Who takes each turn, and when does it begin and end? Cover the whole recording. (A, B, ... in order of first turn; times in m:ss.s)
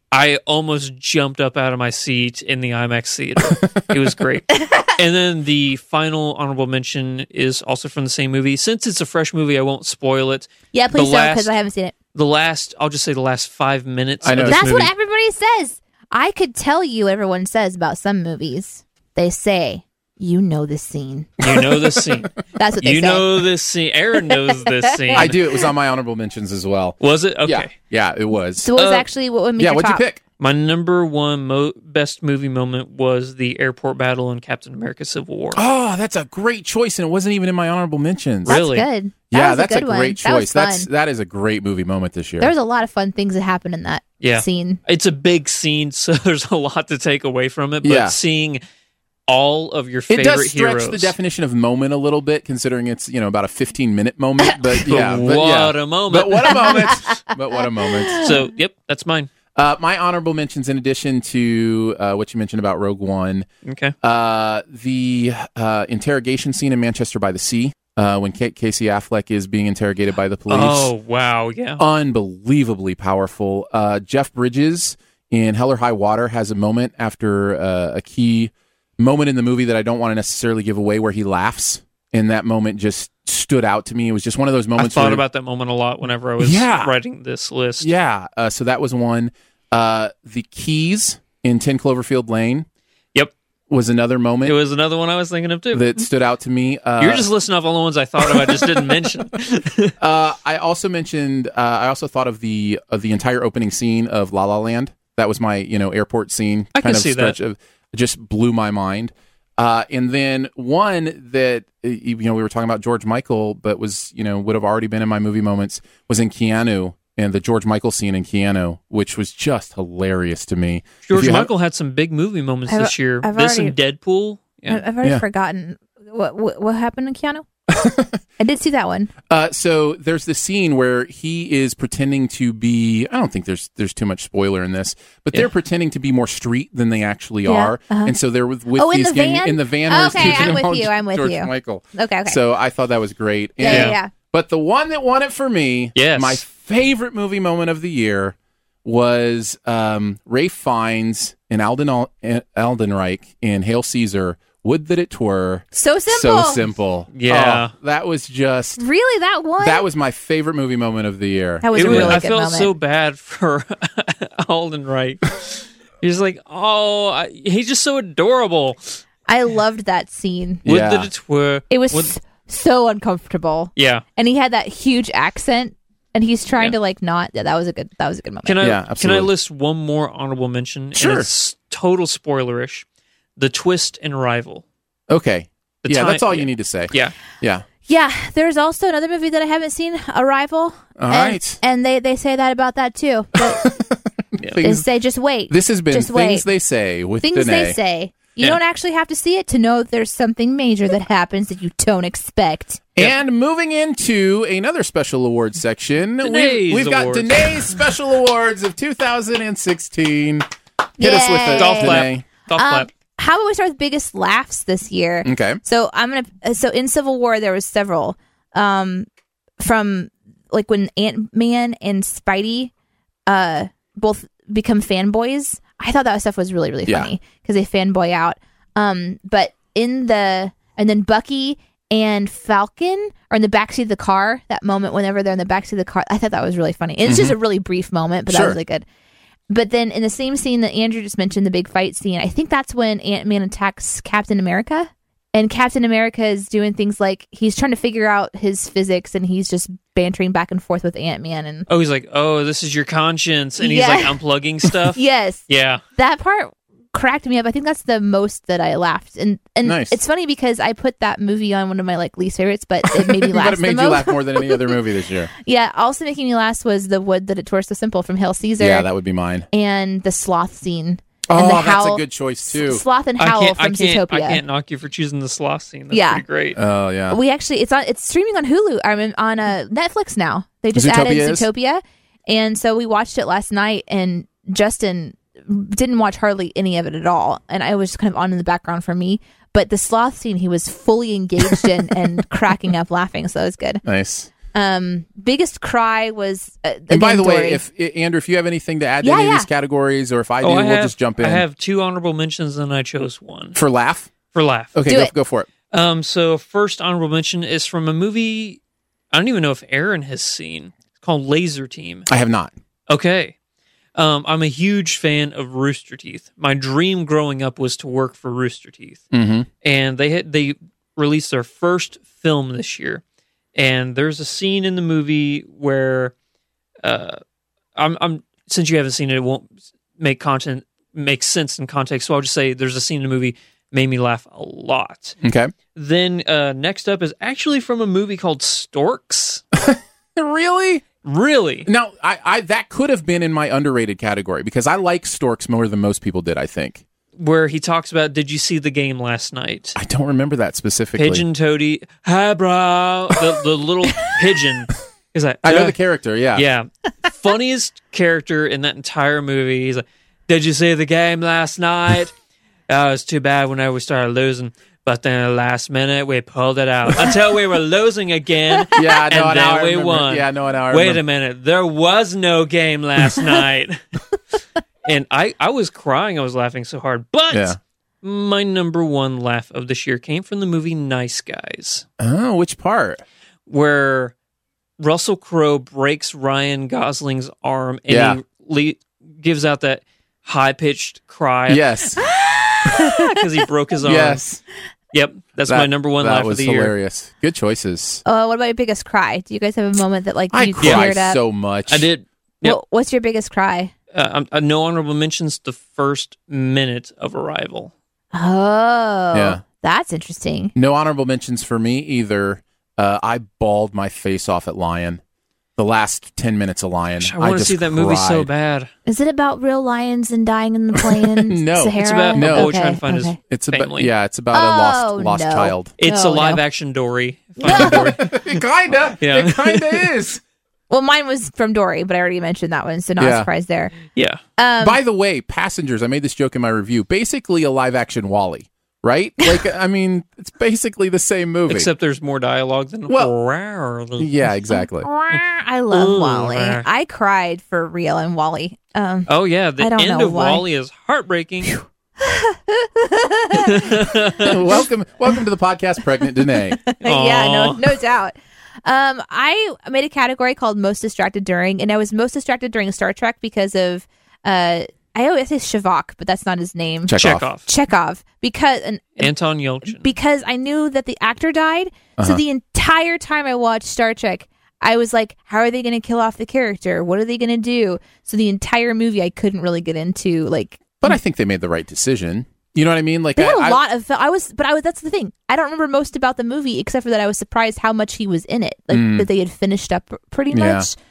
0:00.1-0:11.5 A
0:10.7-0:11.9 B
0:12.1-0:14.9 A
0:14.2-0:14.8 C
0:14.4-0:21.6 B
0:21.4-0:25.3 A
0:21.5-0:21.8 C
0:22.5-0:23.4 B
0:24.5-0:25.3 B
0:25.1-0:28.7 C
0:27.0-0:27.7 A
0:28.6-0:30.0 B
0:28.8-0:29.1 A
0:29.6-0:30.2 C
0:30.4-0:35.6 A
0:35.5-0:38.6 C
0:38.4-0:38.9 A
0:38.4-0:40.9 B
0:39.3-0:42.5 C
0:42.4-0:44.8 B
0:44.2-0:48.6 A
0:47.8-0:48.2 C
0:49.3-0:51.1 A
0:50.1-0:58.3 C
0:54.8-0:56.9 A
0:56.6-0:57.0 B
0:58.1-0:59.3 A
0:59.5-1:03.5 C
1:03.6-1:03.9 A
1:04.0-1:10.9 C
1:10.5-1:11.8 A
1:11.8-1:25.2 C
1:24.8-1:27.9 A
1:26.4-1:26.9 C
1:27.8-1:32.6 C
1:33.7-1:34.6 C
1:34.4-1:36.0 A
1:35.7-1:37.3 C
1:37.0-1:39.9 A
1:38.2-1:38.7 C
1:40.0-2:01.5 C
1:46.7-1:47.4 A
2:01.0-2:04.8 A
2:02.7-2:03.7 B
2:04.7-2:07.4 B
2:07.7-2:08.2 C
2:08.4-2:09.1 B
2:09.3-2:38.8 C
2:17.4-2:18.1 B
2:18.7-2:22.4 B
2:23.6-2:24.1 B
2:23.6-2:24.0 A
2:26.0-2:26.4 A
2:35.7-2:36.6 B
2:37.1-2:37.7 A
2:38.8-2:39.8 B
2:39.6-2:42.2 C
2:41.6-2:42.7 B
2:41.7-2:49.0 A
2:49.3-2:50.6 B
2:50.6-2:51.1 C
2:50.6-2:52.1 A
2:51.7-2:58.6 B
2:53.8-2:54.0 A
2:58.4-3:02.8 A
2:58.6-2:59.3 C
3:00.9-3:01.3 C
3:03.4-3:04.6 A
3:05.1-3:07.6 C
3:05.8-3:07.1 A
3:07.8-3:13.6 B
3:11.0-3:11.6 C
3:13.4-3:14.9 C
3:14.6-3:16.4 B
3:15.5-3:17.8 C
3:17.2-3:22.9 B
3:23.0-3:30.4 C
3:26.2-3:27.4 A
3:31.0-3:32.2 C
3:31.0-3:39.1 B
3:31.5-3:32.9 A
3:35.2-3:35.6 C
3:39.6-3:42.7 B
3:43.3-3:58.8 B
3:46.8-3:47.1 C
3:57.0-3:57.4 C
3:58.3-3:58.6 C
3:59.5-4:11.7 B
4:11.7-4:15.8 A
4:13.6-4:14.2 B
4:14.9-4:15.4 B
4:16.0-4:24.7 B
4:19.6-4:20.0 C
4:23.0-4:25.3 C
4:25.4-4:28.9 B
4:28.6-4:29.5 C
4:29.5-4:34.4 B
4:31.3-4:32.8 C
4:33.2-4:36.6 A
4:35.9-4:36.2 B
4:36.5-4:37.2 C
4:37.1-4:53.8 B
4:40.7-4:41.5 C
4:53.8-4:54.3 C
4:54.5-4:57.6 B
4:56.9-5:01.4 C
4:59.0-4:59.5 B
5:00.4-5:03.6 A
5:03.5-5:04.1 C
5:04.3-5:04.8 A
5:04.7-5:05.5 C
5:04.8-5:05.1 B
5:05.7-5:08.6 A
5:09.1-5:12.1 A
5:12.1-5:12.5 C
5:12.9-5:13.3 A
5:14.0-5:19.0 A
5:19.1-5:19.5 C
5:19.6-5:23.0 A
5:23.5-5:26.1 A
5:26.8-5:27.2 A
5:27.8-5:35.2 A
5:35.2-5:35.5 C
5:35.7-5:39.4 A
5:39.6-5:40.8 C
5:41.0-5:41.7 A
5:41.6-5:46.8 C
5:47.2-5:49.8 A
5:49.8-5:51.2 C
5:51.0-5:55.8 A
5:55.4-5:56.4 C
5:56.3-6:02.1 A
6:02.7-6:13.8 A
6:08.7-6:11.0 C
6:14.8-6:21.8 A
6:17.3-6:17.6 C
6:22.0-6:23.0 C
6:23.5-6:24.1 A
6:24.8-6:31.6 A
6:27.9-6:28.2 C
6:31.5-6:32.0 C
6:32.1-6:33.1 B
6:32.7-6:34.2 A
6:33.8-6:34.4 C
6:34.9-6:36.7 A
6:35.5-6:38.0 C
6:38.0-6:41.2 B
6:40.3-6:41.9 C
6:40.6-6:40.9 A
6:41.7-6:42.6 A
6:42.4-6:43.7 B
6:43.9-6:47.7 A
6:48.1-6:50.5 B
6:49.1-6:49.4 C
6:50.5-6:55.0 C
6:55.6-6:58.3 C
6:57.0-6:58.7 A
6:58.8-7:03.2 B
7:00.9-7:02.6 C
7:01.8-7:03.9 A
7:03.3-7:05.7 C
7:04.3-7:06.4 B
7:05.8-7:08.4 A
7:07.4-7:08.0 B
7:07.4-7:10.2 C
7:09.0-7:09.9 A
7:10.7-7:13.7 B
7:13.0-7:13.3 C
7:13.9-7:14.2 A
7:14.4-7:14.8 B
7:14.6-7:21.7 C
7:21.5-7:24.1 A
7:24.0-7:24.9 C
7:24.5-7:30.4 B
7:25.7-7:26.7 A
7:29.1-7:31.6 A
7:31.5-7:34.3 B
7:33.4-7:34.4 A
7:34.2-7:36.6 C
7:36.7-7:49.1 B
7:36.8-7:37.7 A
7:46.9-7:47.3 C
7:47.0-7:47.5 A
7:49.0-7:49.9 A
7:49.6-8:01.0 B
8:00.8-8:03.6 C
8:03.2-8:10.7 B
8:08.7-8:09.1 C
8:10.3-8:10.7 C